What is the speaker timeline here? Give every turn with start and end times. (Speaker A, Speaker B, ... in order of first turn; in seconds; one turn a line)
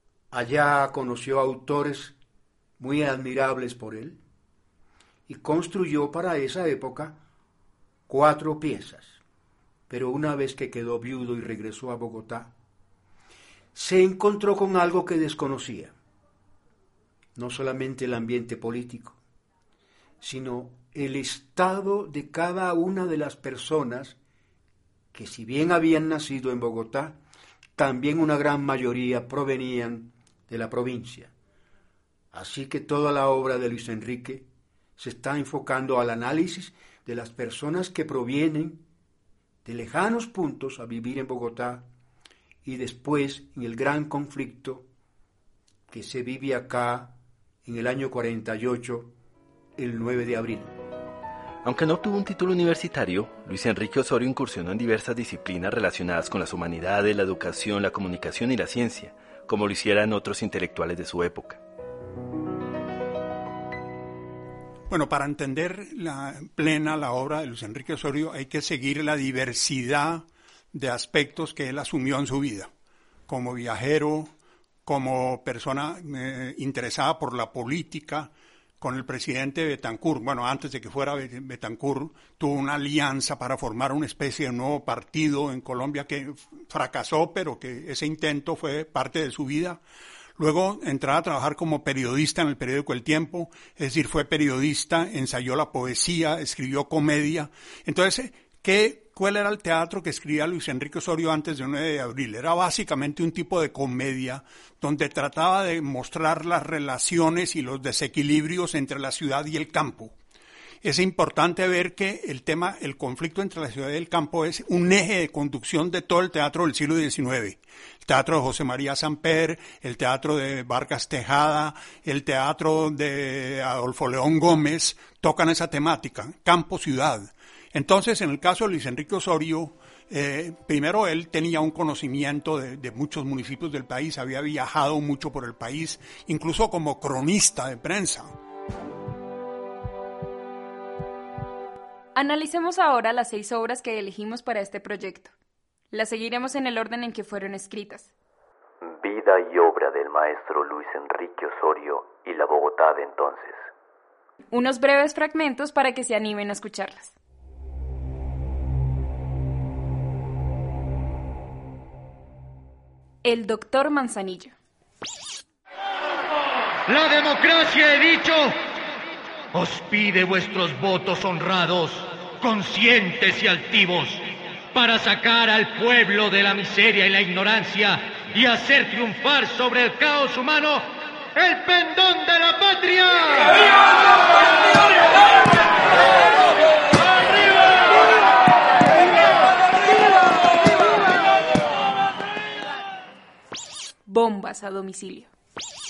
Speaker A: 0.3-2.1
Speaker A: 2.8-4.2
Speaker A: 5.3-7.2
Speaker A: 8.1-9.2
Speaker A: 9.9-12.5
Speaker A: 13.7-15.9
Speaker A: 17.4-19.2
Speaker A: 20.2-24.2
Speaker A: 25.1-27.2
Speaker A: 27.8-31.3
Speaker A: 32.3-38.8
Speaker A: 39.6-41.9
Speaker A: 42.6-44.9
Speaker A: 45.9-49.1
Speaker A: 49.8-50.7
Speaker B: 51.6-61.6
Speaker C: 64.9-72.7
Speaker C: 73.3-74.3
Speaker C: 74.8-89.8
Speaker C: 90.3-110.2
Speaker C: 110.8-138.3
Speaker D: 142.1-145.3
Speaker D: 145.9-148.1
Speaker E: 148.8-153.7
Speaker D: 154.5-157.1
Speaker D: 163.2-164.5
Speaker F: 166.9-168.6
Speaker F: 169.5-183.7
Speaker F: 184.3-184.8
Speaker D: 194.1-195.3